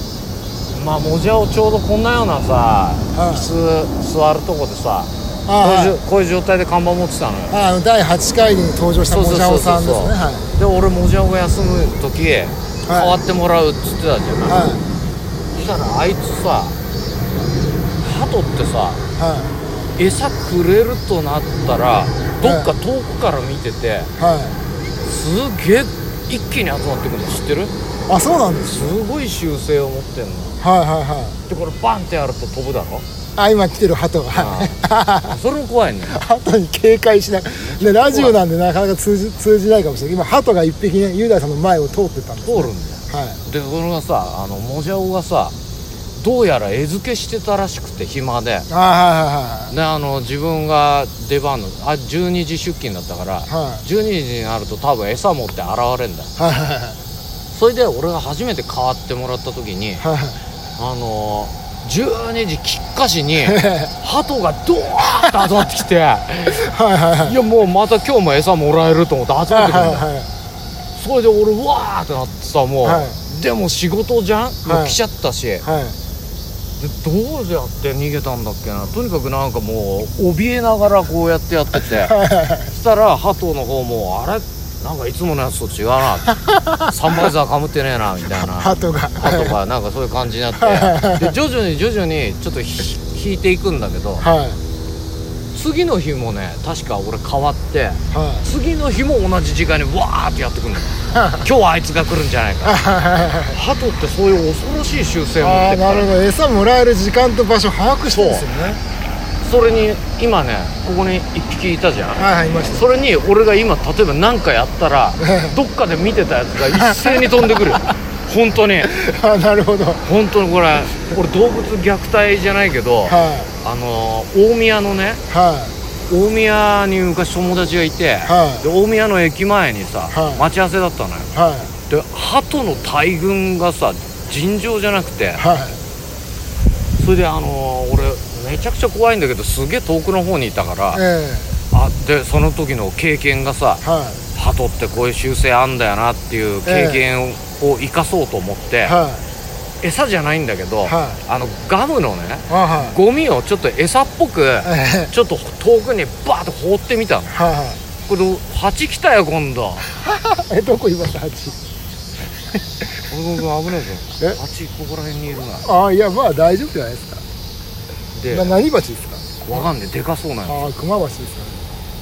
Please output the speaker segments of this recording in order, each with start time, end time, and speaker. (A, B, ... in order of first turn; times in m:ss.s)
0:00.7-0:07.6 A
0:03.1-0:03.5 B
0:05.5-0:06.0 B
0:07.5-0:10.5 B
0:09.1-0:14.7 A
0:12.9-0:13.2 B
0:14.5-0:14.8 B
0:15.5-0:16.8 A
0:18.0-0:19.0 A
0:19.2-0:19.6 B
0:20.0-0:24.1 A
0:22.4-0:22.7 B
0:24.2-0:24.6 B
0:25.1-0:27.7 A
0:28.1-0:29.0 B
0:28.6-0:30.6 A
0:30.6-0:31.4 B
0:31.5-0:33.0 A
0:33.4-0:35.4 B
0:34.3-0:36.2 A
0:36.1-0:43.4 B
0:37.6-0:38.4 A
0:42.4-0:45.6 A
0:46.2-0:48.7 A
0:48.7-0:49.8 B
0:49.7-0:56.3 A
0:53.5-0:53.8 B
0:56.4-0:57.0 B
0:57.5-1:00.0 A
1:00.0-1:00.4 B
1:00.8-1:06.7 A
1:03.4-1:03.9 B
1:06.5-1:07.4 B
1:07.2-1:10.1 A
1:09.5-1:10.3 B
1:11.0-1:15.7 A
1:12.8-1:13.2 B
1:14.6-1:15.0 B
1:15.6-1:16.0 B
1:16.8-1:22.1 A
1:21.8-1:22.7 B
1:22.7-1:26.3 A
1:26.3-1:27.3 B
1:26.9-1:34.3 A
1:28.3-1:29.6 B
1:30.6-1:31.4 B
1:34.2-1:34.6 B
1:35.5-1:42.8 A
1:38.1-1:38.5 B
1:41.1-1:41.5 B
1:42.6-1:43.6 B
1:43.5-1:46.1 A
1:45.4-1:48.8 B
1:48.1-1:48.5 A
1:49.4-1:58.9 A
1:52.2-1:52.9 B
1:55.2-1:55.6 B
1:56.7-1:57.9 B
1:58.8-2:00.0 B
2:00.0-2:05.2 A
2:03.1-2:03.5 B
2:05.3-2:05.8 B
2:06.1-2:11.3 A
2:08.2-2:08.7 B
2:10.1-2:10.4 B
2:11.3-2:11.7 B
2:11.9-2:15.4 A
2:15.4-2:15.8 B
2:17.0-2:21.0 A
2:20.9-2:21.6 B
2:21.7-2:23.8 A
2:23.8-2:24.2 B
2:24.4-2:29.0 A
2:26.7-2:27.0 B
2:28.8-2:29.2 B
2:29.8-2:37.4 A
2:30.9-2:31.2 B
2:32.5-2:33.0 B
2:34.6-2:35.1 B
2:37.3-2:37.8 B
2:38.0-2:39.8 A
2:39.9-2:41.6 B
2:43.1-2:45.7 A
2:45.6-2:47.2 B
2:48.2-2:48.6 A
2:48.3-2:49.7 B
2:49.4-2:50.7 A
2:50.5-2:51.7 B